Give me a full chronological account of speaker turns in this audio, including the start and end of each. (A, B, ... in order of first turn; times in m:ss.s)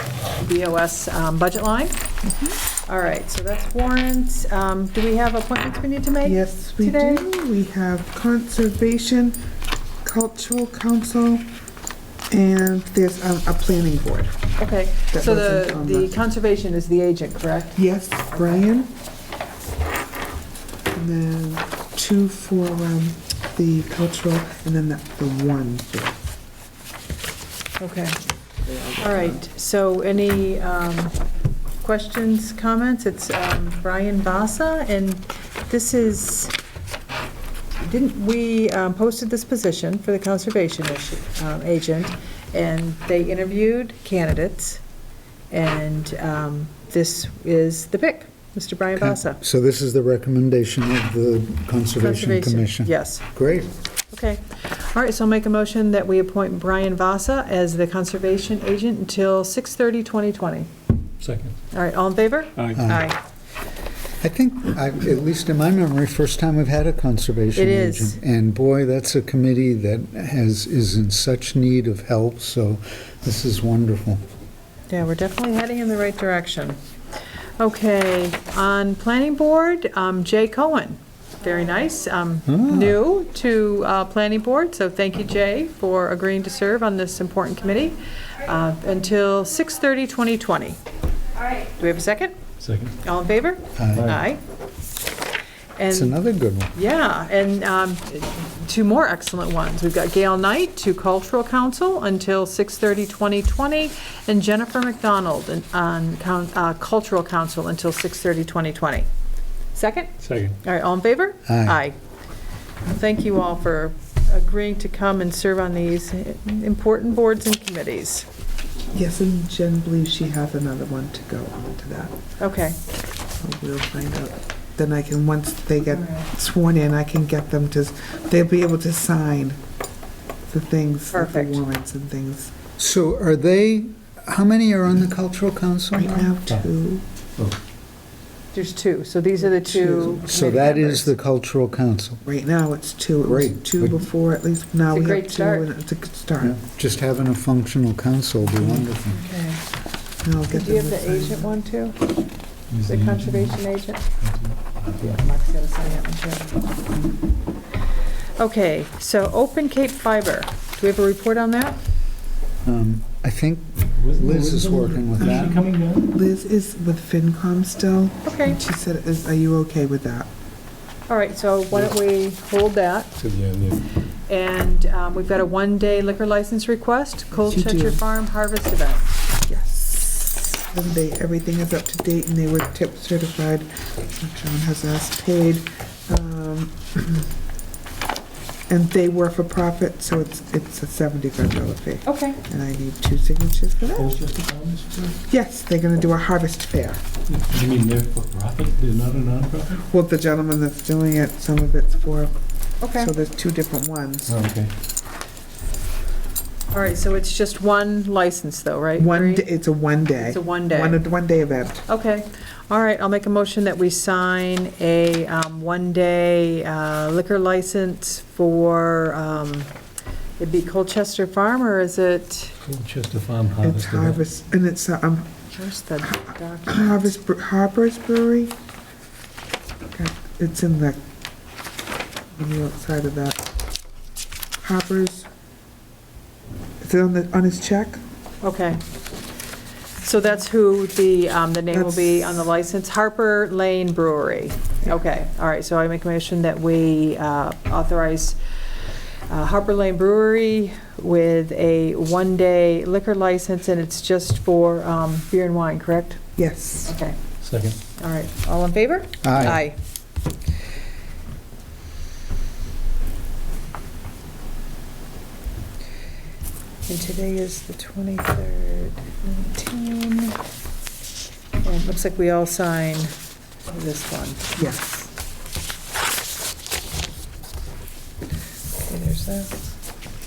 0:00.3-0:02.0 A
0:02.8-0:07.2 A
0:06.2-0:09.4 B
0:10.0-0:11.4 B
0:12.3-0:14.4 B
0:14.6-0:17.8 A
0:15.1-0:16.1 B
0:17.7-0:18.9 B
0:18.3-0:18.6 A
0:20.9-0:26.2 B
0:27.8-0:28.2 A
0:28.6-0:29.4 B
0:29.0-0:31.2 A
0:31.8-0:36.5 A
0:37.8-0:44.8 A
0:45.5-0:49.4 A
0:49.0-0:53.7 C
0:52.0-0:53.2 A
0:54.1-1:00.7 A
1:01.2-1:01.5 D
1:01.7-1:03.2 A
1:02.7-1:03.1 C
1:04.2-1:14.2 C
1:07.6-1:08.2 A
1:14.9-1:16.8 A
1:17.6-1:30.8 A
1:22.5-1:23.0 C
1:31.6-1:32.4 A
1:32.6-1:33.0 D
1:33.0-1:34.4 A
1:33.8-1:34.1 C
1:33.9-1:34.2 D
1:35.8-1:36.2 A
1:35.9-1:36.7 C
1:36.7-1:49.1 A
1:49.7-1:52.0 A
1:50.2-1:50.6 D
1:51.5-1:51.8 C
1:52.8-1:58.3 A
1:58.9-2:02.1 B
2:02.4-2:02.8 A
2:03.4-2:09.6 B
2:05.9-2:06.3 A
2:10.5-2:12.5 B
2:11.1-2:11.6 A
2:12.8-2:16.3 C
2:15.9-2:17.0 B
2:18.5-2:21.1 A
2:19.5-2:20.2 B
2:20.2-2:22.2 C
2:22.2-2:26.6 B
2:23.2-2:24.1 C
2:24.9-2:25.7 A
2:26.4-2:29.2 C
2:29.1-2:29.6 A
2:30.2-2:31.6 B
2:30.5-2:32.0 A
2:32.7-2:33.6 D
2:32.9-2:34.0 A
2:34.2-2:35.2 D
2:35.0-2:36.6 A
2:38.4-2:41.8 A
2:42.6-2:45.6 C
2:43.9-2:46.1 D
2:45.2-2:50.3 B
2:48.2-2:48.6 A
2:51.1-2:53.1 A
2:53.2-2:53.8 D
2:54.3-2:59.1 A
2:57.4-2:58.0 B
2:59.5-3:07.3 B
3:08.7-3:14.1 B
3:12.0-3:12.4 A
3:13.9-3:15.1 D
3:15.1-3:17.0 B
3:17.3-3:19.8 D
3:19.8-3:22.3 B
3:22.8-3:23.1 A
3:22.8-3:24.4 B
3:24.3-3:24.7 D
3:26.7-3:29.5 A
3:29.0-3:31.8 B
3:30.2-3:31.0 A
3:31.9-3:39.7 A
3:40.4-3:42.6 A
3:42.6-3:44.2 D
3:43.6-3:45.3 B
3:45.5-3:47.1 A
3:46.0-3:48.5 B
3:49.9-3:51.0 B
3:52.3-3:53.5 B
3:54.6-3:55.3 B
3:56.8-3:58.0 B
3:58.4-3:58.8 A
4:00.0-4:08.4 A
4:01.7-4:02.3 B
4:09.3-4:16.2 A
4:16.4-4:16.9 B
4:16.8-4:17.2 A
4:17.4-4:17.8 D
4:17.9-4:19.8 A
4:19.2-4:19.6 C
4:26.9-4:30.4 A
4:31.6-4:33.1 A
4:33.7-4:34.5 A
4:34.6-4:35.1 B
4:38.8-4:39.6 A